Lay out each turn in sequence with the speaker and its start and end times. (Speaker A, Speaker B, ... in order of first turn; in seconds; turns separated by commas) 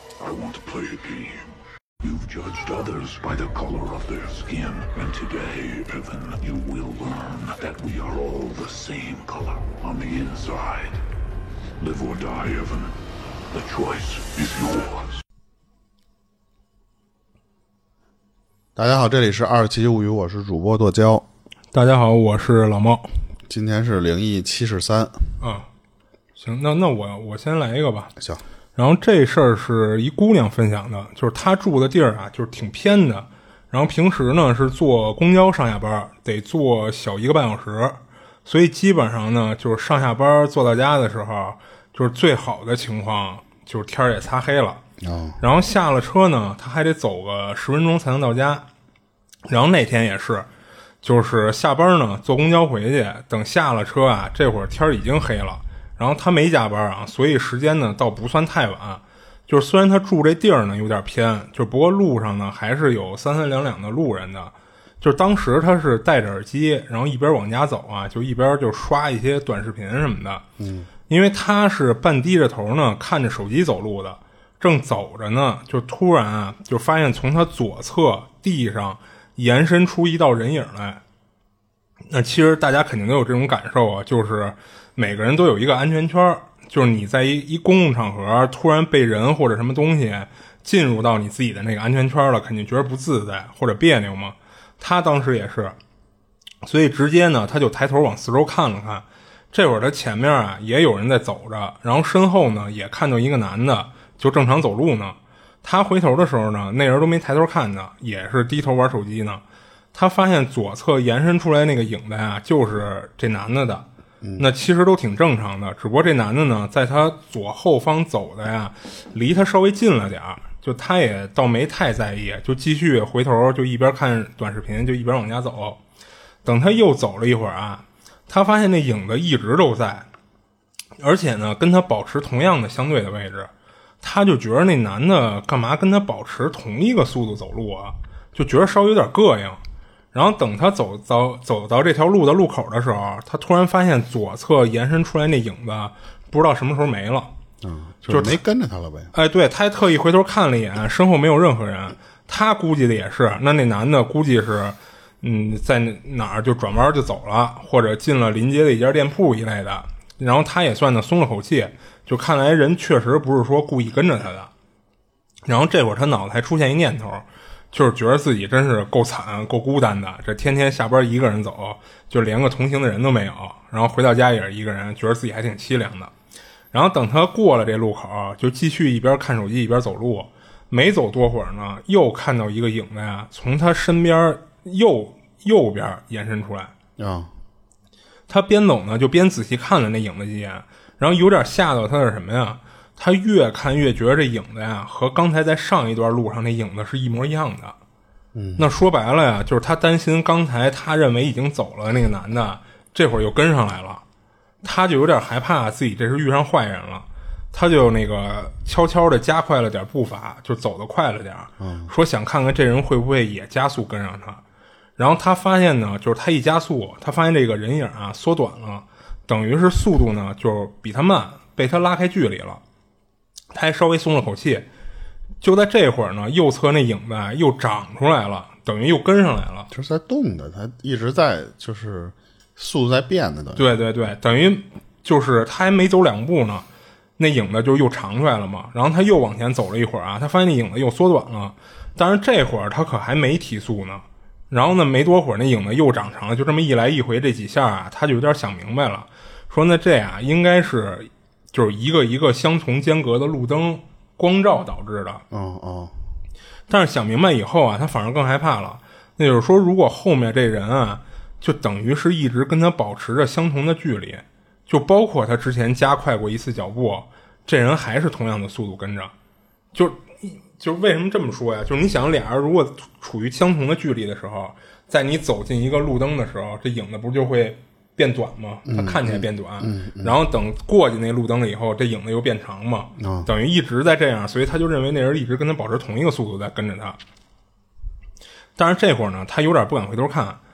Speaker A: 0.2-1.4, Speaker A: 2.0-11.0, Speaker A: 11.8-13.0, Speaker A: 13.5-15.1, Speaker B: 18.8-21.3, Speaker C: 21.7-23.1, Speaker B: 23.5-25.2, Speaker C: 25.4-25.7, Speaker C: 26.4-28.1, Speaker C: 28.8-44.8, Speaker B: 45.0-45.4, Speaker C: 45.4-48.6, Speaker C: 49.5-50.5, Speaker C: 51.0-70.4, Speaker B: 70.6-70.9, Speaker C: 71.1-81.0, Speaker C: 82.1-95.8, Speaker C: 96.6-109.4, Speaker C: 109.9-113.9, Speaker C: 114.4-125.8, Speaker C: 126.4-130.1, Speaker C: 131.0-133.5, Speaker C: 134.0-139.6, Speaker C: 140.1-147.3, Speaker B: 147.6-149.1, Speaker C: 148.1-148.4, Speaker C: 149.1-164.5, Speaker C: 165.5-176.1, Speaker C: 176.7-186.7, Speaker B: 187.0-187.3, Speaker C: 188.3-197.8, Speaker B: 198.3-198.7, Speaker C: 198.6-204.0, Speaker C: 204.6-214.4, Speaker B: 211.6-211.9, Speaker C: 215.0-222.6, Speaker C: 223.5-224.7, Speaker C: 225.4-229.7, Speaker B: 229.7-233.7, Speaker C: 233.6-236.7, Speaker C: 237.2-255.2, Speaker B: 255.3-255.9, Speaker C: 256.7-269.1, Speaker C: 269.7-287.0, Speaker B: 278.7-280.2, Speaker B: 283.0-283.3, Speaker C: 288.6-290.4